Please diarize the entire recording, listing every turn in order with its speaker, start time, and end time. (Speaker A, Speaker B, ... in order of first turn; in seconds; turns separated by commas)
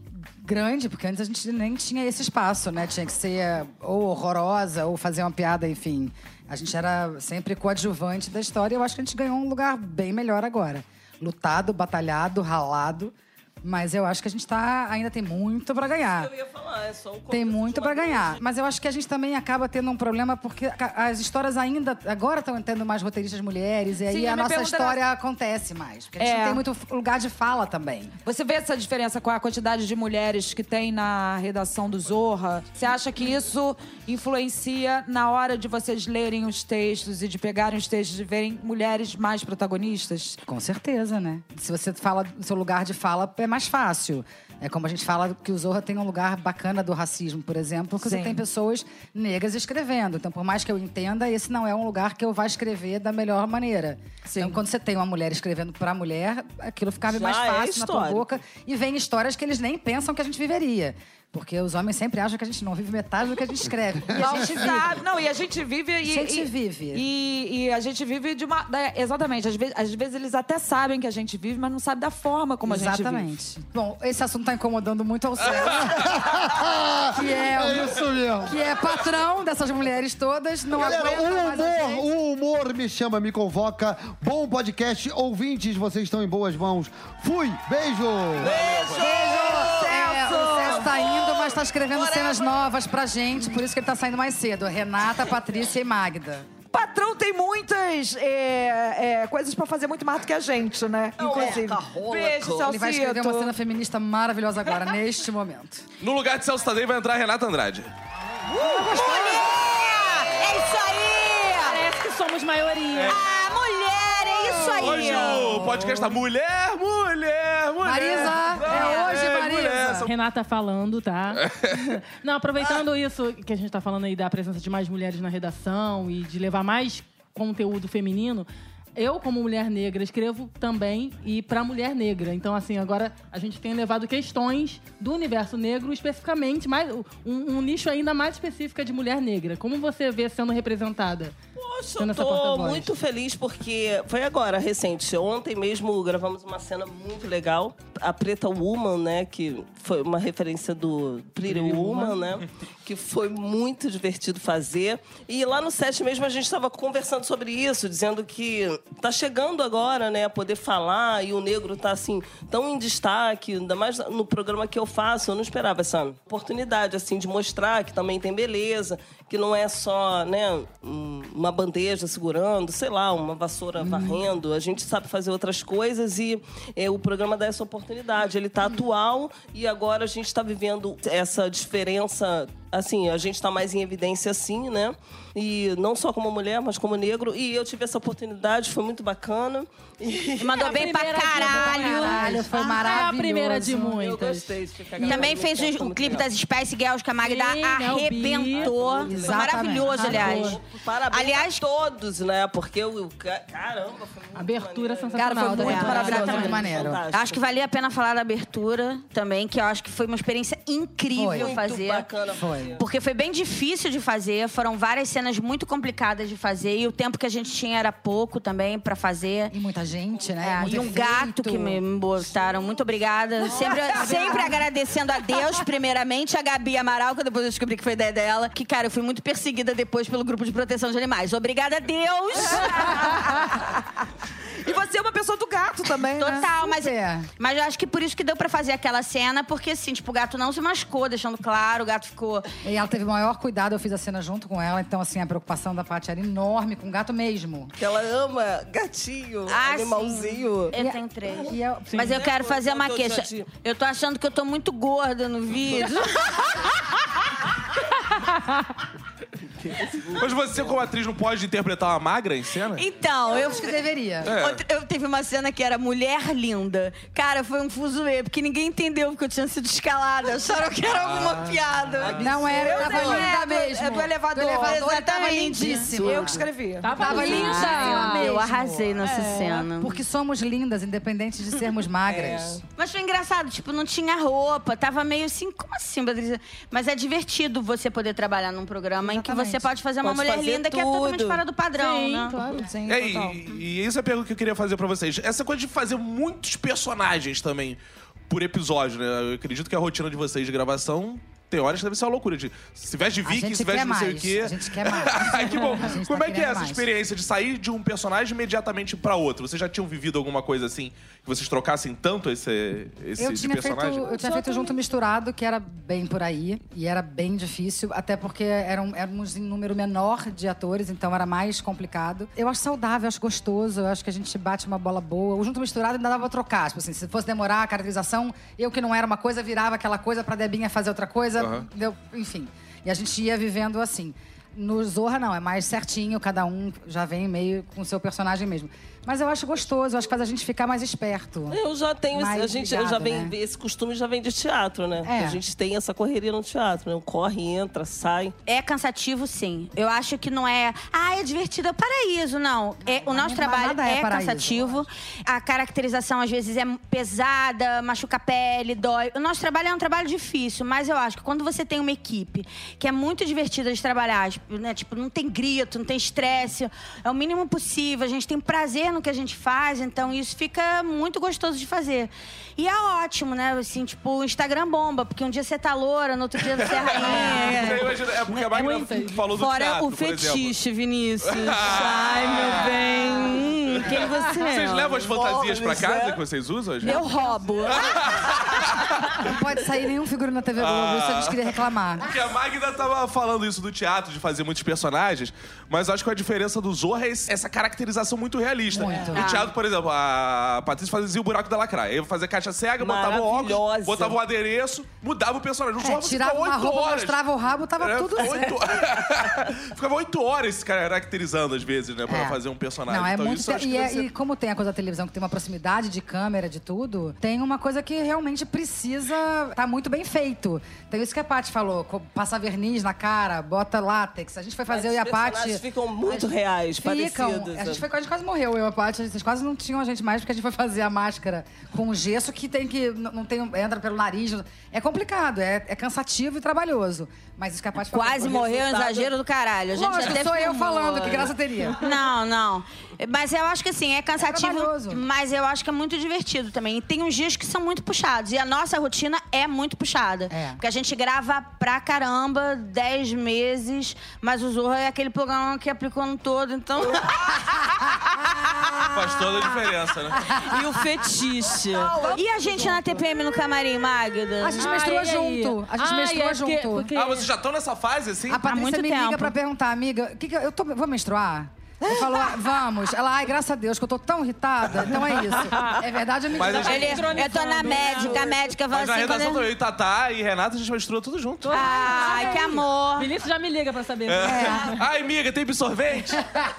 Speaker A: 0.4-16.3, Speaker B: 15.9-18.4, Speaker A: 17.3-28.1, Speaker C: 24.0-25.0, Speaker C: 26.2-26.6, Speaker C: 28.2-40.4, Speaker A: 40.5-65.0, Speaker C: 48.0-48.4, Speaker C: 54.2-54.6, Speaker B: 57.1-58.3, Speaker C: 64.1-73.3, Speaker D: 64.2-64.6, Speaker A: 66.0-67.0, Speaker A: 72.6-76.1, Speaker D: 75.8-78.7, Speaker A: 77.1-82.0, Speaker D: 80.7-88.5, Speaker E: 88.4-89.3, Speaker B: 88.4-92.5, Speaker A: 89.0-96.5, Speaker C: 89.0-90.9, Speaker C: 96.7-103.5, Speaker B: 101.2-102.7, Speaker A: 102.6-105.8, Speaker E: 106.0-107.9, Speaker A: 108.6-109.4, Speaker F: 108.6-111.9, Speaker G: 111.5-113.2, Speaker E: 112.9-113.2, Speaker F: 113.1-115.8, Speaker E: 114.7-120.1, Speaker A: 117.8-120.1, Speaker G: 118.7-119.0, Speaker G: 120.0-141.3, Speaker E: 121.4-121.8, Speaker B: 141.6-191.2, Speaker G: 142.0-142.9, Speaker G: 151.4-152.2, Speaker A: 173.8-174.2, Speaker F: 190.4-192.8, Speaker G: 190.6-194.5, Speaker A: 191.3-193.9, Speaker B: 193.9-196.3, Speaker F: 194.9-200.6, Speaker G: 197.2-198.9, Speaker B: 198.5-207.5, Speaker A: 199.0-200.4, Speaker G: 199.8-200.6, Speaker F: 201.1-201.6, Speaker G: 204.3-206.7, Speaker C: 205.3-206.3, Speaker F: 205.3-212.1, Speaker A: 205.3-207.0, Speaker A: 211.1-211.6, Speaker B: 211.3-212.8, Speaker A: 212.3-212.7, Speaker F: 212.8-219.5, Speaker A: 219.5-221.8, Speaker B: 220.2-221.0, Speaker F: 220.4-233.6, Speaker B: 222.2-224.0, Speaker A: 223.5-224.6, Speaker C: 234.6-236.5, Speaker F: 236.1-242.5, Speaker A: 236.4-237.3, Speaker A: 242.6-247.7, Speaker B: 247.8-250.7, Speaker F: 249.5-256.7, Speaker A: 250.7-252.1, Speaker B: 251.9-253.5, Speaker B: 259.6-260.7, Speaker E: 260.1-262.9, Speaker F: 262.8-273.3, Speaker A: 263.3-264.3, Speaker E: 264.2-264.6, Speaker E: 270.9-271.4, Speaker B: 272.0-273.2, Speaker A: 272.1-279.0, Speaker C: 272.4-277.0, Speaker F: 274.6-276.3, Speaker G: 276.8-278.3, Speaker F: 276.9-280.0, Speaker G: 279.0-279.7, Speaker A: 279.8-282.6, Speaker B: 282.1-282.6, Speaker F: 282.8-292.4, Speaker A: 289.0-289.7, Speaker B: 290.0-291.4, Speaker G: 291.7-292.7, Speaker C: 292.5-293.4, Speaker E: 292.9-297.8, Speaker E: 298.3-314.2, Speaker A: 303.2-306.8, Speaker A: 313.2-341.6, Speaker E: 331.4-331.6, Speaker B: 341.5-348.3, Speaker A: 342.1-343.3, Speaker A: 345.0-345.4, Speaker F: 348.4-378.5, Speaker A: 352.8-354.9, Speaker E: 376.5-380.6, Speaker G: 377.0-377.7, Speaker G: 378.5-379.2, Speaker F: 379.3-385.0, Speaker E: 381.2-387.0, Speaker B: 385.1-386.2, Speaker F: 386.8-388.0, Speaker E: 387.7-389.3, Speaker A: 389.1-392.0, Speaker E: 390.6-407.2, Speaker A: 398.7-399.3, Speaker F: 399.0-399.5, Speaker B: 402.8-404.2, Speaker A: 405.8-408.6, Speaker E: 407.8-414.1, Speaker A: 412.1-438.4, Speaker B: 424.7-427.8, Speaker F: 437.9-458.9, Speaker B: 438.2-439.1, Speaker A: 439.7-441.8, Speaker A: 444.2-445.0, Speaker A: 450.3-450.6, Speaker E: 458.9-460.3, Speaker A: 460.2-460.6, Speaker F: 460.3-464.8, Speaker C: 461.9-463.0, Speaker A: 464.4-466.9, Speaker G: 464.5-467.3, Speaker E: 466.9-468.4, Speaker A: 468.3-477.0, Speaker F: 468.4-469.3, Speaker C: 471.8-472.1, Speaker G: 475.5-475.8, Speaker E: 476.3-477.2, Speaker G: 476.4-478.4, Speaker F: 476.6-479.5, Speaker B: 477.8-478.3, Speaker E: 478.6-482.3, Speaker G: 481.4-484.8, Speaker F: 481.5-483.1, Speaker E: 484.1-486.5, Speaker C: 484.2-484.7